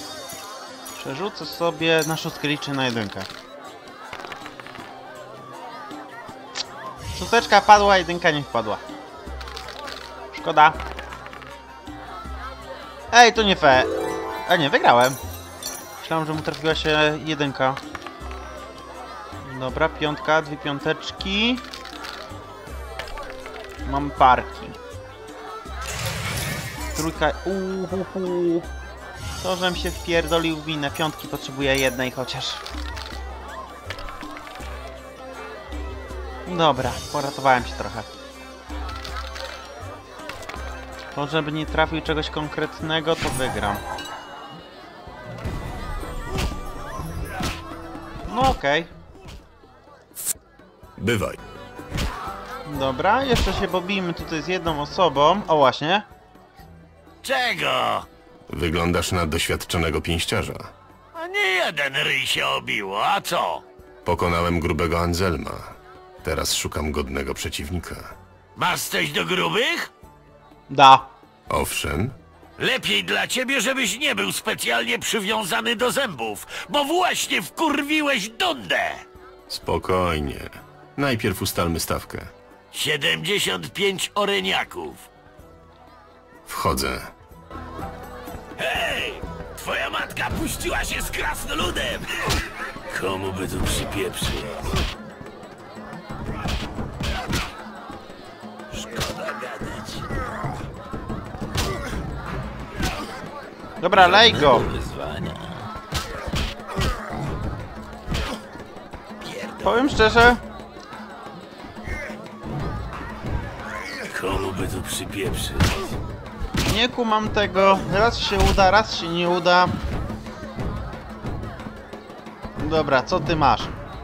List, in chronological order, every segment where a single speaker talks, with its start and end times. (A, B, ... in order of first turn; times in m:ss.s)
0:01.0-0:03.3 A
0:07.2-0:08.8 A
0:10.3-0:10.8 A
0:13.1-0:13.9 A
0:14.5-0:15.2 A
0:16.0-0:17.8 A
0:19.4-0:21.7 A
0:23.8-0:24.8 A
0:27.0-0:28.7 A
0:29.4-0:32.6 A
0:36.5-0:38.1 A
0:41.2-0:43.8 A
0:48.3-0:48.9 A
0:51.0-0:51.4 B
0:52.7-0:56.1 A
0:57.2-0:58.1 C
0:58.5-1:00.7 B
1:01.2-1:03.6 C
1:04.0-1:08.2 B
1:08.6-1:09.9 C
1:10.7-1:11.1 A
1:11.5-1:12.2 B
1:12.6-1:19.0 C
1:19.5-1:22.3 B
1:22.7-1:25.1 C
1:26.5-1:27.1 B
1:28.6-1:32.1 C
1:32.9-1:34.6 C
1:38.7-1:40.0 C
1:43.8-1:44.7 A
1:44.8-1:45.3 C
1:49.2-1:49.7 C
1:49.6-1:50.4 A
1:54.1-1:55.8 C
1:56.7-1:59.7 A
2:02.6-2:03.7 A